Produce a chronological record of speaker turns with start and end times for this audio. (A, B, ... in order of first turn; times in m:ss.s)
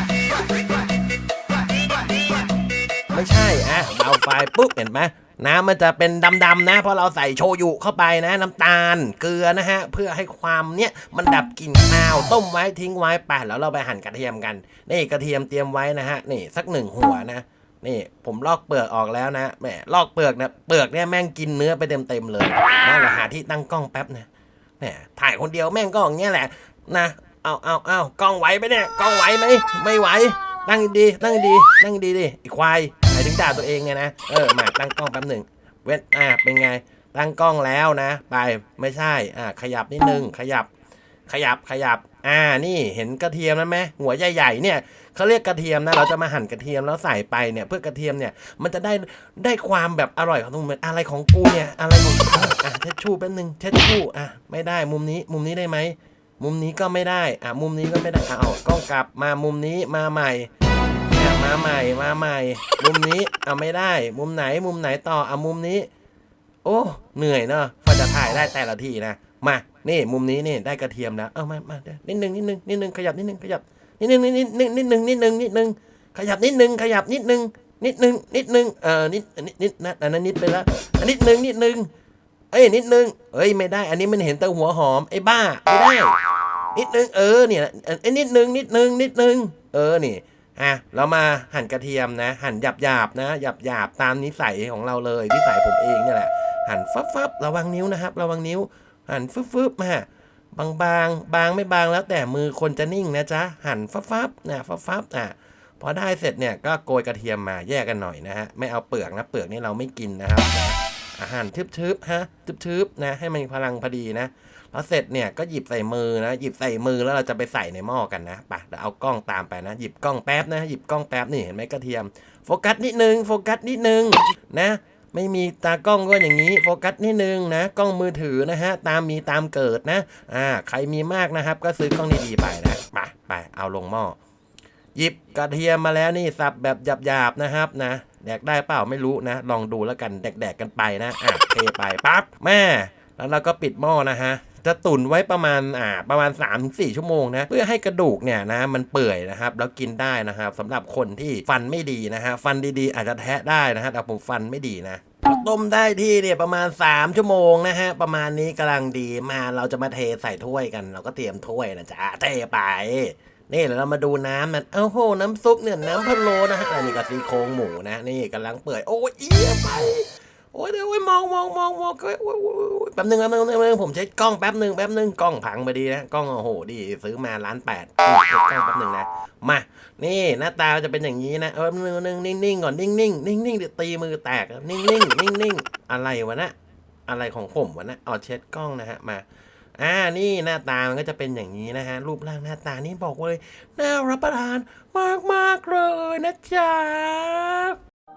0:03.1-0:24.3 A
0:24.8-0:40.7 A
0:41.3-1:00.5 A
1:01.1-1:05.9 A
1:06.6-1:21.9 A
1:22.5-1:26.1 A
1:26.7-2:14.2 A
2:14.9-3:06.5 A
3:07.1-3:09.2 A
3:09.8-3:17.8 A